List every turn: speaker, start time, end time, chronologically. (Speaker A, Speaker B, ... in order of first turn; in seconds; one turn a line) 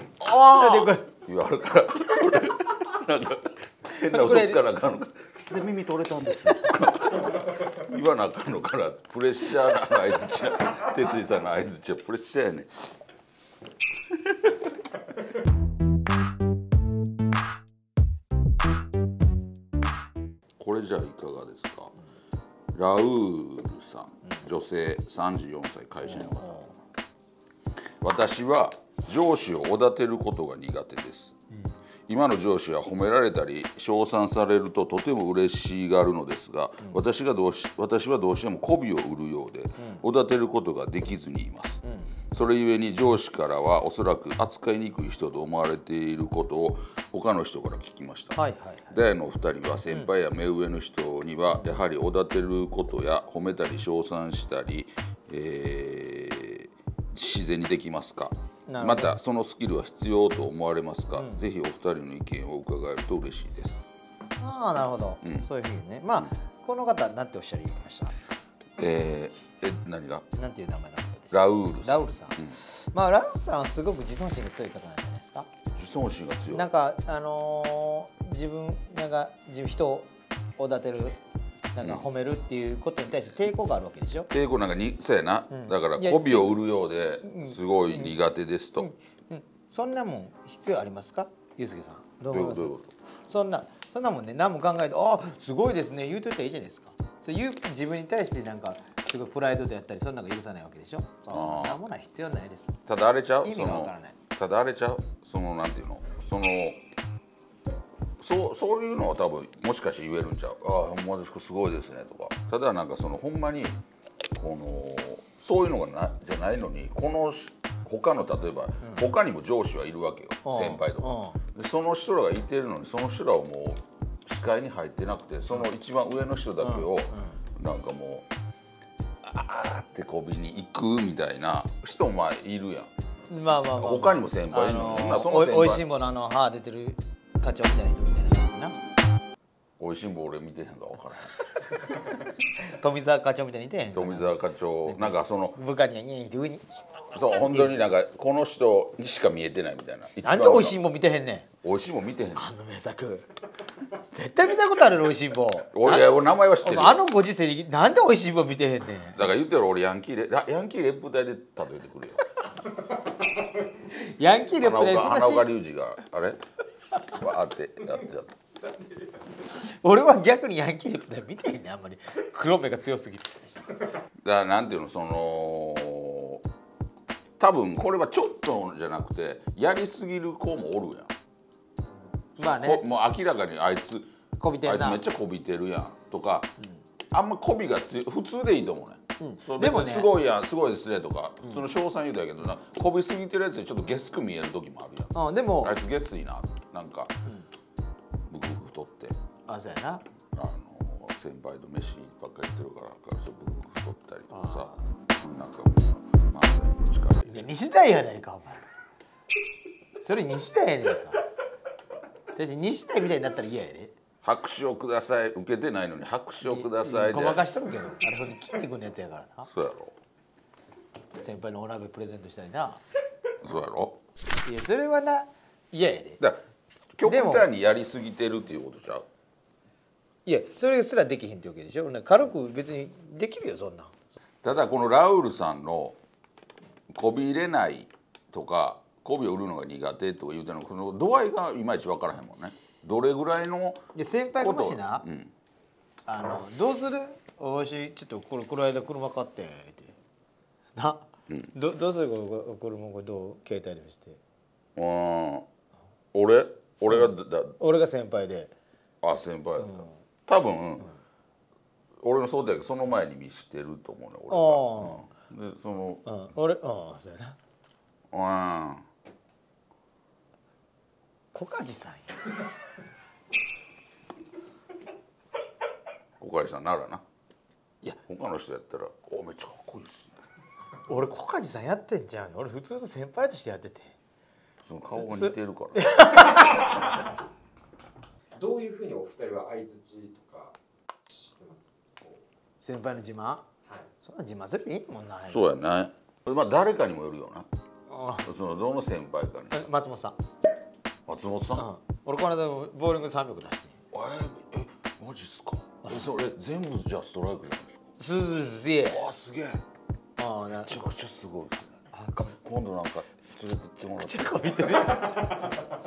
Speaker A: 0.2-12.8
Speaker B: 0.3-1.1
Speaker B: 4.0-4.6
Speaker A: 14.2-14.5
Speaker A: 20.6-21.9
Speaker A: 22.7-26.6
Speaker B: 26.0-26.8
Speaker A: 28.0-31.3
Speaker B: 31.5-31.8
Speaker A: 32.1-41.8
Speaker B: 39.8-40.0
Speaker B: 41.8-42.1
Speaker A: 42.3-48.4
Speaker B: 48.4-49.0
Speaker A: 48.9-63.8
Speaker B: 58.7-59.2
Speaker B: 61.1-61.4
Speaker B: 64.4-68.2
Speaker A: 65.2-65.5
Speaker A: 68.8-70.3
Speaker B: 70.3-75.5
Speaker A: 71.3-72.6
Speaker A: 75.8-76.7
Speaker B: 76.5-81.2
Speaker B: 81.7-84.3
Speaker A: 81.8-82.1
Speaker A: 84.3-88.9
Speaker B: 85.5-86.6
Speaker B: 87.2-88.2
Speaker B: 88.8-92.7
Speaker A: 92.3-92.9
Speaker B: 93.3-102.8
Speaker A: 101.3-101.8
Speaker A: 102.9-106.8
Speaker B: 103.4-104.2
Speaker A: 108.2-113.8
Speaker A: 114.3-128.2
Speaker B: 118.8-119.1
Speaker B: 120.4-121.4
Speaker B: 126.6-127.4
Speaker A: 129.2-132.9
Speaker B: 133.3-138.8
Speaker A: 133.6-135.8
Speaker A: 139.8-141.3
Speaker B: 141.6-144.3
Speaker A: 143.9-145.6
Speaker B: 144.9-147.8
Speaker A: 147.1-150.8
Speaker B: 150.2-151.5
Speaker A: 151.6-152.5
Speaker B: 152.3-153.3
Speaker B: 154.0-159.2
Speaker A: 155.7-157.0
Speaker A: 159.2-162.2
Speaker B: 163.7-165.5
Speaker A: 164.6-166.4
Speaker A: 167.1-168.4
Speaker B: 169.4-173.5
Speaker A: 174.2-176.4
Speaker A: 177.4-181.1
Speaker A: 182.4-184.1
Speaker B: 182.4-182.8
Speaker B: 184.4-185.0
Speaker A: 184.6-186.5
Speaker A: 187.1-197.2
Speaker B: 189.2-190.1
Speaker B: 195.1-195.8
Speaker A: 198.3-199.2
Speaker B: 199.5-200.1
Speaker A: 200.3-207.5
Speaker B: 204.3-204.8
Speaker B: 207.3-208.7
Speaker B: 210.0-211.2
Speaker B: 212.3-213.9
Speaker A: 214.2-217.4
Speaker B: 216.4-219.5
Speaker A: 219.5-220.0
Speaker B: 221.2-222.8
Speaker A: 223.4-224.0
Speaker B: 224.4-226.2
Speaker A: 226.9-229.1
Speaker B: 227.1-227.5
Speaker B: 230.3-234.0
Speaker A: 234.4-236.0
Speaker A: 236.9-243.8
Speaker B: 243.9-245.1
Speaker A: 244.4-245.3
Speaker B: 246.1-250.0
Speaker B: 250.8-254.2
Speaker A: 254.8-255.5
Speaker A: 256.1-257.6
Speaker B: 256.9-258.5
Speaker A: 259.0-260.9
Speaker B: 259.6-259.9
Speaker A: 262.0-266.0
Speaker B: 264.3-265.1
Speaker B: 266.1-267.4
Speaker A: 268.1-268.9
Speaker B: 271.3-272.2
Speaker A: 276.2-277.0
Speaker A: 277.8-280.2
Speaker B: 280.9-284.0
Speaker A: 284.6-285.9
Speaker B: 285.0-286.9
Speaker C: 288.3-290.5
Speaker C: 291.1-292.1
Speaker B: 292.6-293.5
Speaker B: 294.0-295.5
Speaker A: 295.3-297.5
Speaker B: 297.9-298.3
Speaker A: 298.2-299.7
Speaker B: 299.5-300.2
Speaker A: 301.1-301.7
Speaker B: 301.6-303.8
Speaker A: 303.9-307.8
Speaker B: 308.0-309.0
Speaker A: 308.9-309.6
Speaker B: 310.2-310.8
Speaker A: 310.6-311.8
Speaker B: 311.9-312.4
Speaker A: 312.3-314.7
Speaker B: 313.8-315.5